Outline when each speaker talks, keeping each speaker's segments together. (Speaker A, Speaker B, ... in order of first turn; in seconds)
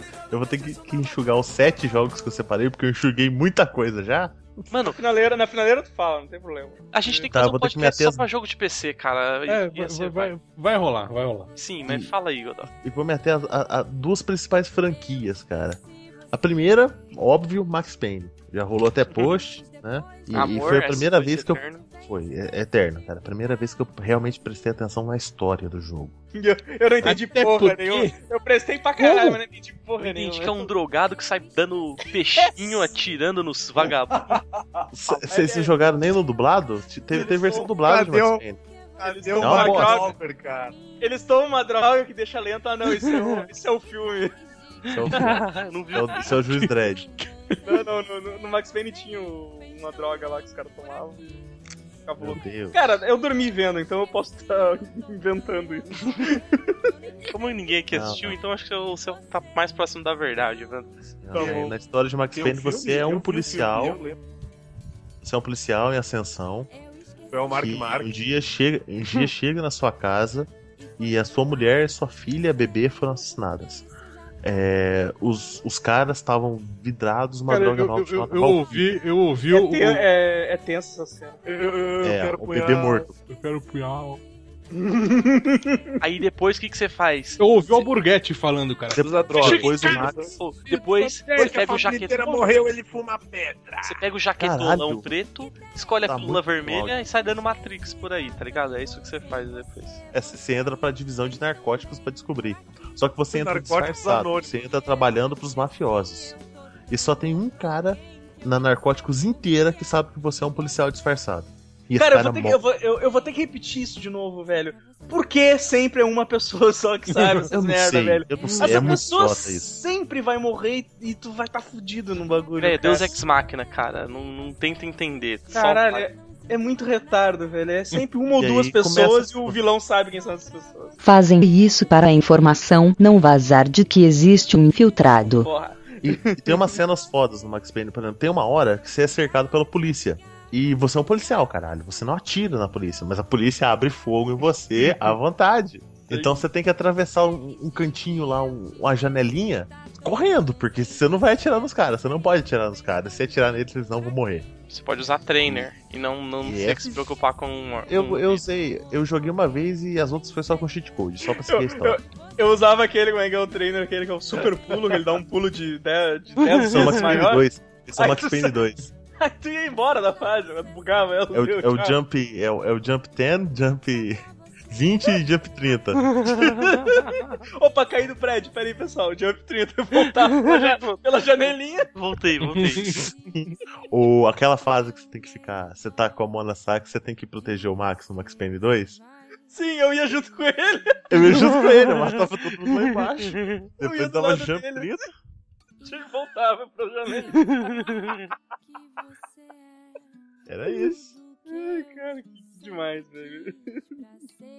Speaker A: 0.3-4.4, 7.3-8.3, 11.9-12.1, 12.7-15.8, 16.3-26.1, 34.9-38.6, 39.4-40.1, 44.9-47.0, 52.2-53.0, 57.9-58.4, 61.2-64.0, 65.2-66.7, 67.5-73.9, 74.4-79.0, 82.0-83.2, 88.9-90.3, 94.4-95.1, 96.0-97.0, 100.1-106.4, 106.9-112.6, 117.5-119.8, 128.4-129.6, 136.0-154.5, 155.4-155.7, 156.4-156.9, 157.9-162.0, 166.6-168.9, 171.3-176.2, 183.3-189.0, 191.1-195.1, 200.5-201.2
Speaker B: 4.7-5.0, 6.9-10.3, 11.6-12.7, 20.3-21.9, 30.0-34.4, 43.0-43.4, 44.9-46.6, 57.3-61.0, 86.0-87.8, 89.4-92.5, 93.8-100.0, 118.5-118.9, 122.6-126.1, 154.7-158.4, 166.6-166.9, 176.2-177.4, 180.1-181.0, 181.9-183.1, 191.4-192.1, 192.9-193.7, 197.4-198.3
Speaker C: 4.9-7.3, 26.4-30.7, 35.1-35.7, 37.2-37.7, 39.0-40.1, 41.0-44.3, 47.6-51.4, 52.1-56.9, 61.3-61.7, 79.5-81.4, 84.8-86.0, 112.0-123.2, 125.5-131.0, 135.3-136.7, 146.1-146.4, 161.5-168.6, 169.2-172.0, 176.3-181.9, 189.5-191.3, 193.8-195.0, 195.8-197.9, 201.5-204.0
Speaker D: 9.5-11.5, 27.0-28.2, 29.0-29.4, 77.5-80.1, 83.3-84.2, 87.4-89.9, 90.7-91.5, 117.1-117.5, 182.5-183.1
Speaker E: 34.1-34.9, 37.2-38.4, 39.0-40.8, 61.4-61.8, 62.3-64.2, 67.3-68.1, 81.5-83.1, 89.0-90.3, 91.4-94.0, 103.3-104.6
Speaker F: 131.0-135.5